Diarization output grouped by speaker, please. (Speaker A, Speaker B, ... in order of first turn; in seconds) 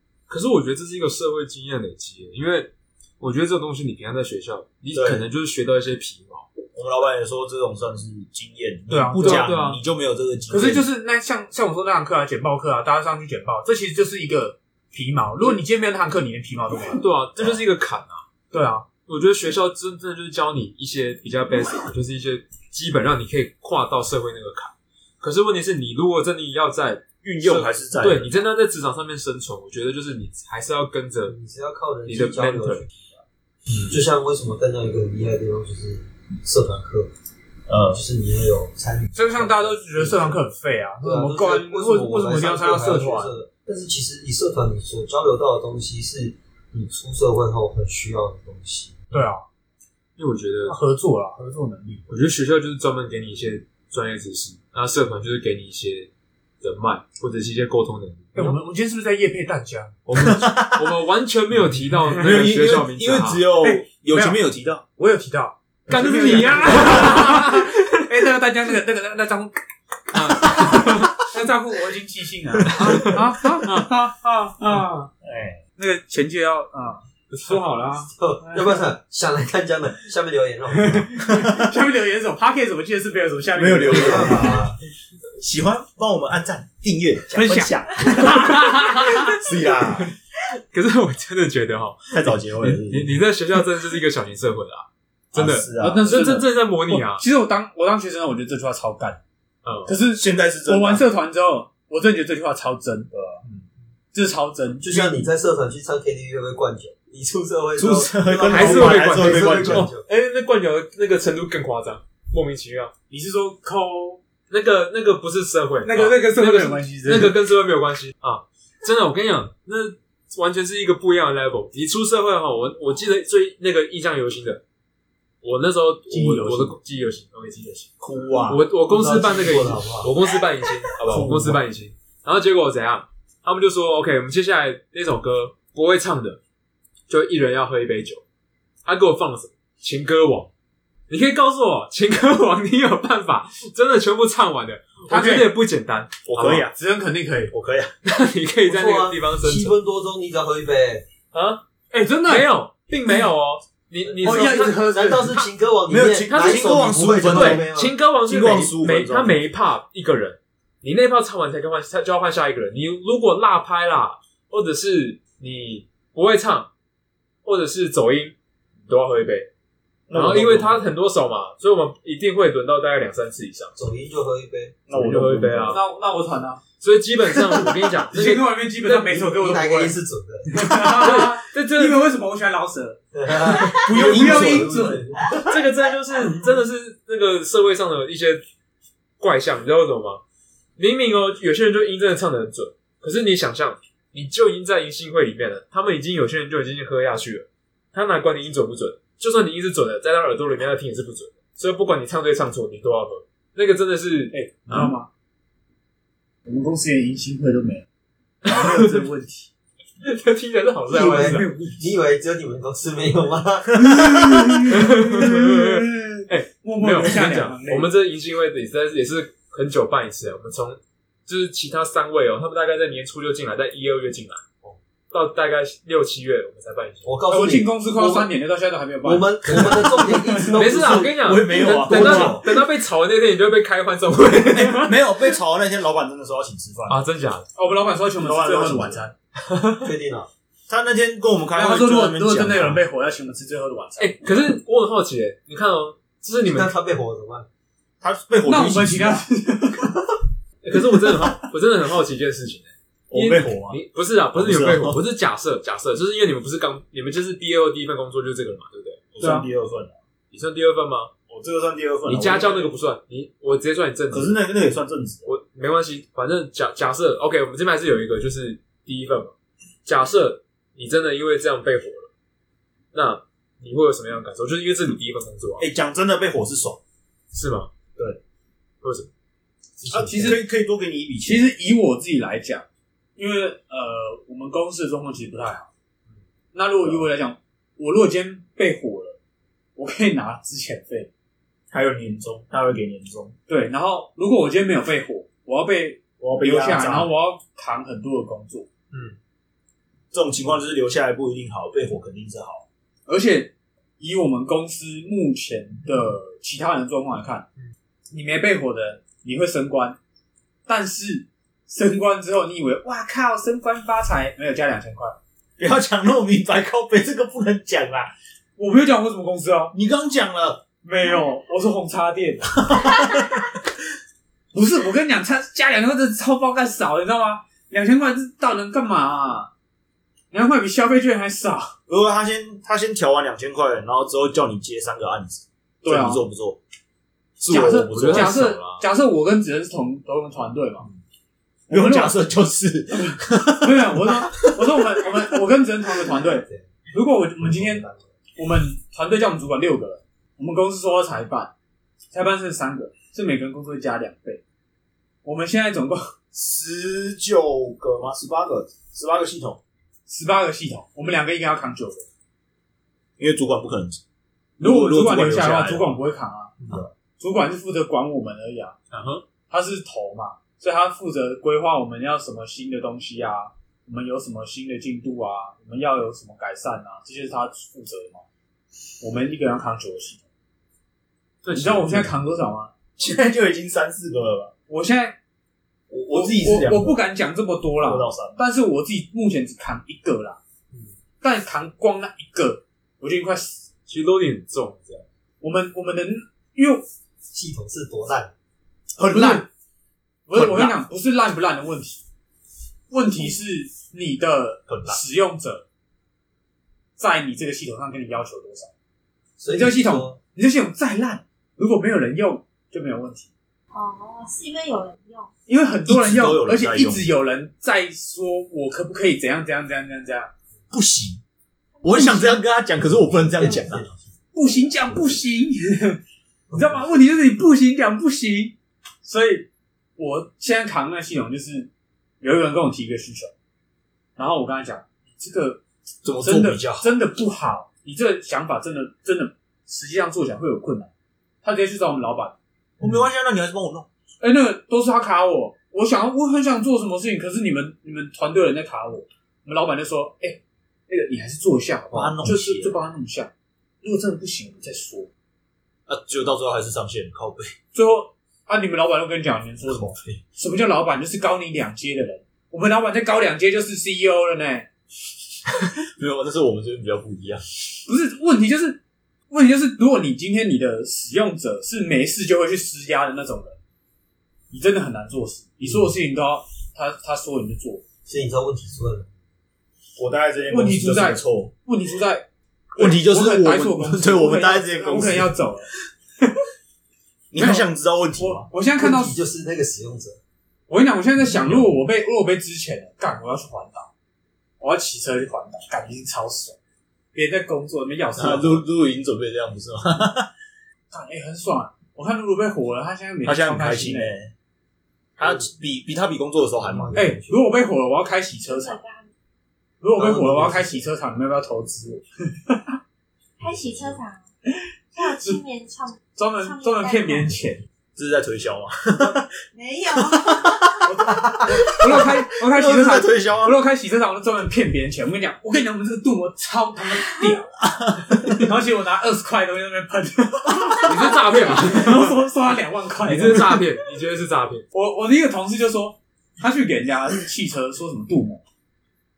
Speaker A: 0.3-6.5, 9.2-9.8, 16.8-18.2, 19.1-31.4, 32.0-32.8, 50.2-50.8, 52.1-58.6, 60.0-63.5, 65.9-67.9, 70.1-71.2, 72.7-73.2, 77.3-77.6, 88.2-90.1, 90.7-97.2, 99.6-100.0, 108.5-112.9, 114.5-124.6, 125.4-127.9, 128.5-136.4, 137.1-138.2, 138.8-140.5, 141.1-146.7, 148.0-149.7, 151.3-151.6, 152.2-154.8, 156.2-166.7, 167.4-168.3, 168.8-169.5, 170.1-173.7, 174.9-175.8, 176.8-179.2, 180.8-182.0, 183.4-183.8, 185.3-188.4, 189.2-190.2, 190.8-204.9, 208.4-209.0, 210.0-211.5, 214.7-224.4, 225.1-227.1, 230.5-235.2, 236.9-237.5, 239.5-239.9, 244.0-246.7, 250.6-259.1, 260.3-261.1, 262.1-264.3, 265.2-269.3, 269.8-272.1, 272.9-275.7, 277.3-277.7, 278.8-279.1, 298.9-299.2, 337.8-338.8, 368.9-369.2, 381.4-382.0, 393.9-395.1, 530.9-532.1, 533.0-534.6
Speaker B: 4.9-5.2, 6.7-10.8, 27.2-28.5, 37.7-38.0, 60.2-60.9, 62.2-64.8, 65.9-67.2, 75.2-75.6, 81.3-81.6, 83.5-84.7, 85.4-88.3, 89.4-90.1, 92.1-93.2, 95.3-96.1, 100.1-101.0, 103.1-103.6, 107.8-109.9, 128.0-128.6, 131.1-131.6, 146.2-146.7, 147.5-147.9, 155.9-157.7, 158.2-159.4, 170.1-170.9, 174.9-175.8, 183.9-185.0, 213.8-215.3, 230.7-232.4, 234.3-237.0, 238.2-239.0, 240.7-242.8, 248.0-249.2, 253.1-253.8, 254.3-255.0, 259.1-260.0, 261.3-262.7, 264.1-265.3, 275.6-276.8, 279.9-281.4, 291.7-293.4, 296.3-297.1, 300.1-302.6, 315.6-318.1, 319.7-320.6, 322.7-323.2, 331.9-336.6, 337.4-338.4, 341.7-344.8, 356.3-359.6, 363.2-364.0, 364.6-365.9, 383.0-384.5, 385.9-387.0, 387.8-388.4, 398.9-399.4, 400.3-400.7, 404.7-405.0, 415.8-417.1, 420.7-421.2, 421.8-423.8, 436.0-436.9, 442.8-443.9, 451.9-452.7, 455.9-457.5, 459.6-460.2, 465.5-467.4, 480.0-481.5, 482.7-485.3, 487.3-488.5, 491.3-491.6, 498.1-500.3, 503.2-504.3, 505.2-506.9, 518.0-519.2, 521.9-523.5
Speaker C: 8.9-9.5, 10.5-17.0, 18.5-18.9, 39.1-43.3, 49.1-49.4, 50.6-52.0, 58.3-60.0, 63.6-64.4, 65.0-75.1, 75.8-78.8, 80.7-84.6, 87.3-89.3, 95.8-99.2, 99.8-103.1, 104.1-105.2, 113.1-114.2, 115.8-117.4, 126.1-126.8, 145.1-145.5, 146.7-147.5, 151.9-152.5, 154.2-155.4, 175.7-176.6, 178.1-183.0, 183.7-185.1, 204.3-205.1, 206.4-207.8, 208.4-209.5, 211.2-211.9, 213.9-217.9, 227.3-230.6, 237.5-239.1, 241.5-244.2, 248.4-251.4, 259.2-259.5, 279.9-280.4, 281.2-282.6, 283.1-285.7, 286.5-289.2, 289.8-291.1, 293.5-298.7, 303.1-307.4, 308.1-310.0, 310.6-315.1, 318.6-319.7, 320.8-322.9, 324.5-329.5, 330.3-331.7, 335.8-336.2, 337.4-340.9, 341.7-342.2, 342.9-351.5, 352.1-354.4, 355.2-356.1, 360.1-362.1, 364.6-366.6, 367.2-368.8, 369.5-378.2, 379.0-380.2, 381.5-382.7, 384.7-385.2, 386.1-390.4, 391.2-393.6, 395.4-396.8, 399.1-399.4, 400.3-402.0, 402.9-405.6, 407.0-408.7, 409.5-413.3, 415.5-420.3, 421.9-422.4, 424.3-426.0, 426.5-431.7, 432.2-433.3, 434.1-435.6, 436.2-440.9, 441.4-442.4, 444.2-453.3, 453.8-455.1, 457.7-464.7, 467.9-473.6, 474.5-477.8, 480.5-486.4, 487.4-489.2, 490.7-493.9, 494.6-496.6, 497.1-498.6, 500.9-504.1, 506.9-508.8, 509.8-512.7, 514.5-515.4, 516.1-517.6, 520.8-533.7, 534.7-538.4
Speaker D: 31.2-33.2, 33.9-37.1, 37.9-40.4, 41.0-49.1, 78.1-81.1, 83.8-84.8, 104.8-110.0, 128.9-130.1, 148.6-151.0, 154.1-157.9, 173.8-175.0, 179.1-180.5, 183.1-185.4, 210.9-213.8, 227.0-228.3, 229.0-232.4, 239.8-240.3, 246.4-247.5, 279.9-280.3, 345.8-346.8, 347.4-348.1, 397.3-398.3, 409.4-410.2, 422.9-425.2, 426.5-426.8, 475.6-475.9, 478.1-479.1, 488.7-490.2, 505.2-505.4, 506.6-507.4, 509.9-510.9
Speaker E: 413.7-415.3, 508.4-509.1, 513.4-514.2, 515.0-517.3, 519.5-520.6